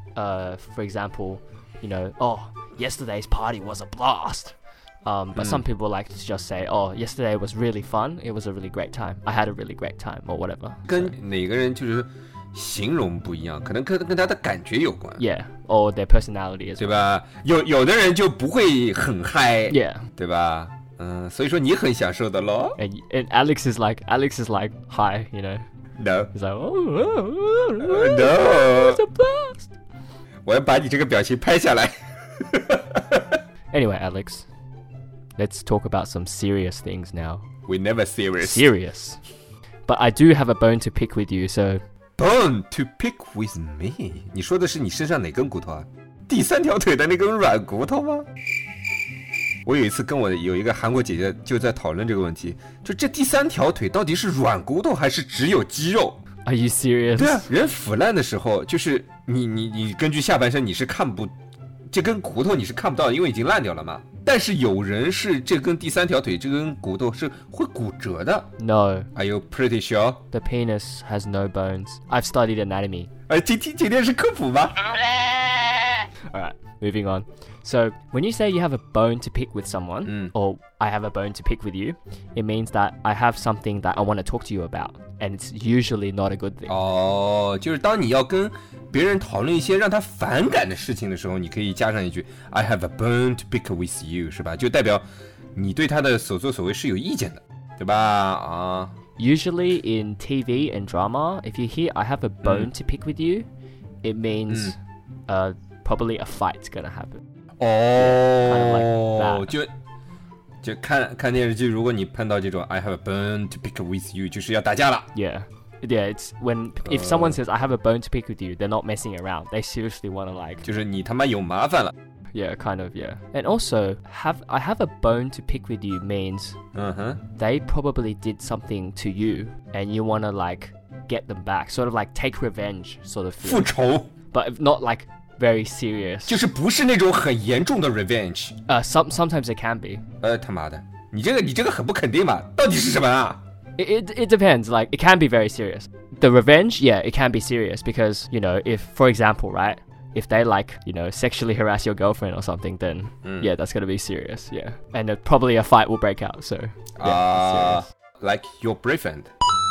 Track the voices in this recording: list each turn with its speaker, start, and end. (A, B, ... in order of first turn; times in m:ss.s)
0:00.1-0:11.1 A
0:05.3-0:05.6 B
0:10.8-0:15.2 B
0:15.2-0:16.8 A
0:16.8-0:22.8 B
0:19.7-0:20.0 A
0:22.8-0:25.6 A
0:26.0-0:26.3 B
0:26.3-0:29.7 A
0:27.8-0:29.0 B
0:30.4-0:33.3 B
0:33.7-0:34.4 A
0:35.4-0:37.4 A
0:37.6-0:38.7 B
0:38.4-0:39.2 A
0:39.8-0:41.8 A
0:42.2-0:48.2 B
0:49.6-0:56.2 B
0:56.4-0:57.5 A
0:57.2-1:01.3 B
1:01.9-1:08.5 B
1:08.6-1:09.1 A
1:09.1-1:10.2 B
1:10.3-1:13.1 A
1:13.3-1:14.8 B
1:16.3-1:26.7 A
1:20.0-1:20.3 B
1:26.7-1:38.9 B
1:39.2-1:43.5 A
1:44.0-1:44.8 A
1:44.5-1:44.7 B
1:45.3-1:47.2 A
1:47.6-1:49.7 B
1:48.0-1:49.5 A
1:50.6-1:55.1 B
1:55.1-2:00.6 A
1:56.8-1:57.4 B
2:00.6-2:01.9 B
2:02.3-2:06.6 A
2:06.7-2:07.2 B
2:07.3-2:13.7 A
2:13.4-2:14.1 B
2:14.3-2:16.4 A
2:16.3-2:18.6 B
2:18.7-2:20.0 A
2:20.2-2:23.4 B
2:23.8-2:37.8 A
2:33.2-2:33.5 B
2:37.0-2:39.3 B